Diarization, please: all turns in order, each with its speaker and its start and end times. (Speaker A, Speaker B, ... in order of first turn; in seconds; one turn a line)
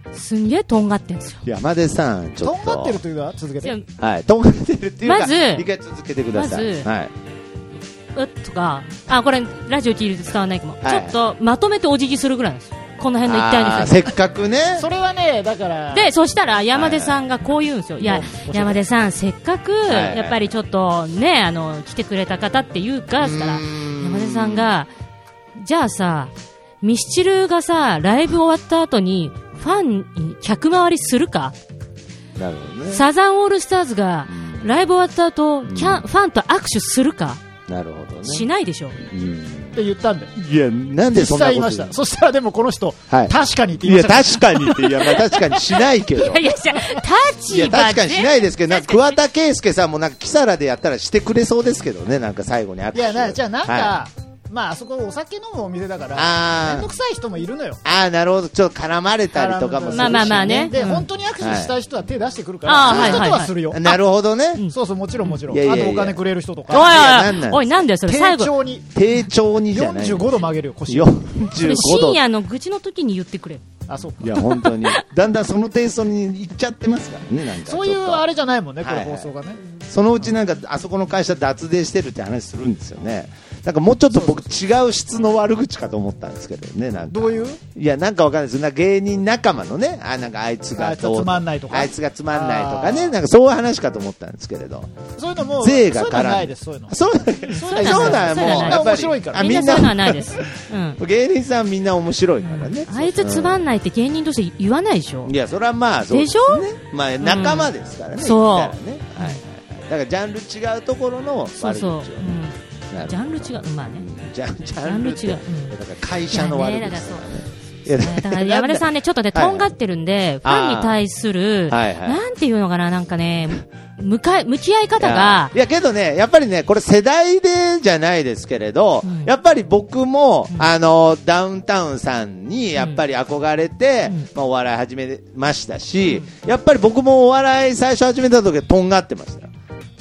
Speaker A: 0.1-1.4
Speaker B: 1.4-3.0
Speaker C: 2.4-3.7
Speaker B: 4.0-7.1
Speaker A: 5.0-5.7
Speaker A: 6.3-6.9
Speaker A: 8.1-14.1
Speaker B: 10.8-11.2
Speaker B: 13.2-14.9
Speaker C: 14.8-16.1
Speaker A: 15.9-24.9
Speaker B: 16.7-17.1
Speaker B: 18.0-18.8
Speaker B: 19.9-20.4
Speaker B: 23.2-24.7
Speaker A: 25.6-31.6
Speaker B: 32.4-33.0
Speaker A: 32.9-37.4
Speaker B: 34.3-34.7
Speaker B: 35.6-36.0
Speaker B: 37.7-38.5
Speaker A: 38.2-39.0
Speaker B: 39.0-39.8
Speaker C: 39.7-40.3
Speaker B: 40.4-42.0
Speaker C: 41.1-45.9
Speaker B: 43.1-46.4
Speaker A: 46.2-49.2
Speaker B: 47.5-54.0
Speaker C: 52.9-57.8
Speaker B: 56.1-56.9
Speaker B: 57.8-60.8
Speaker C: 59.3-63.8
Speaker A: 59.9-61.1
Speaker B: 61.4-61.7
Speaker A: 62.6-64.0
Speaker B: 62.8-64.6
Speaker C: 64.7-66.9
Speaker B: 65.5-67.8
Speaker A: 66.7-68.5
Speaker C: 68.1-68.9
Speaker B: 68.9-72.2
Speaker C: 69.7-71.4
Speaker A: 71.6-73.6
Speaker C: 73.9-74.6
Speaker B: 74.2-78.2
Speaker A: 74.4-75.0
Speaker C: 77.6-79.6
Speaker B: 78.8-95.0
Speaker C: 84.1-84.5
Speaker C: 87.1-87.6
Speaker C: 90.7-93.1
Speaker C: 95.2-99.8
Speaker B: 95.6-103.6
Speaker A: 97.5-101.0
Speaker A: 102.5-105.3
Speaker B: 105.2-112.4
Speaker A: 106.1-106.7
Speaker A: 107.2-109.4
Speaker A: 111.6-114.0
Speaker B: 112.9-119.7
Speaker A: 114.8-115.7
Speaker A: 116.3-117.2
Speaker A: 117.8-125.5
Speaker B: 120.4-121.0
Speaker B: 121.7-122.2
Speaker B: 125.0-139.5
Speaker A: 129.0-129.3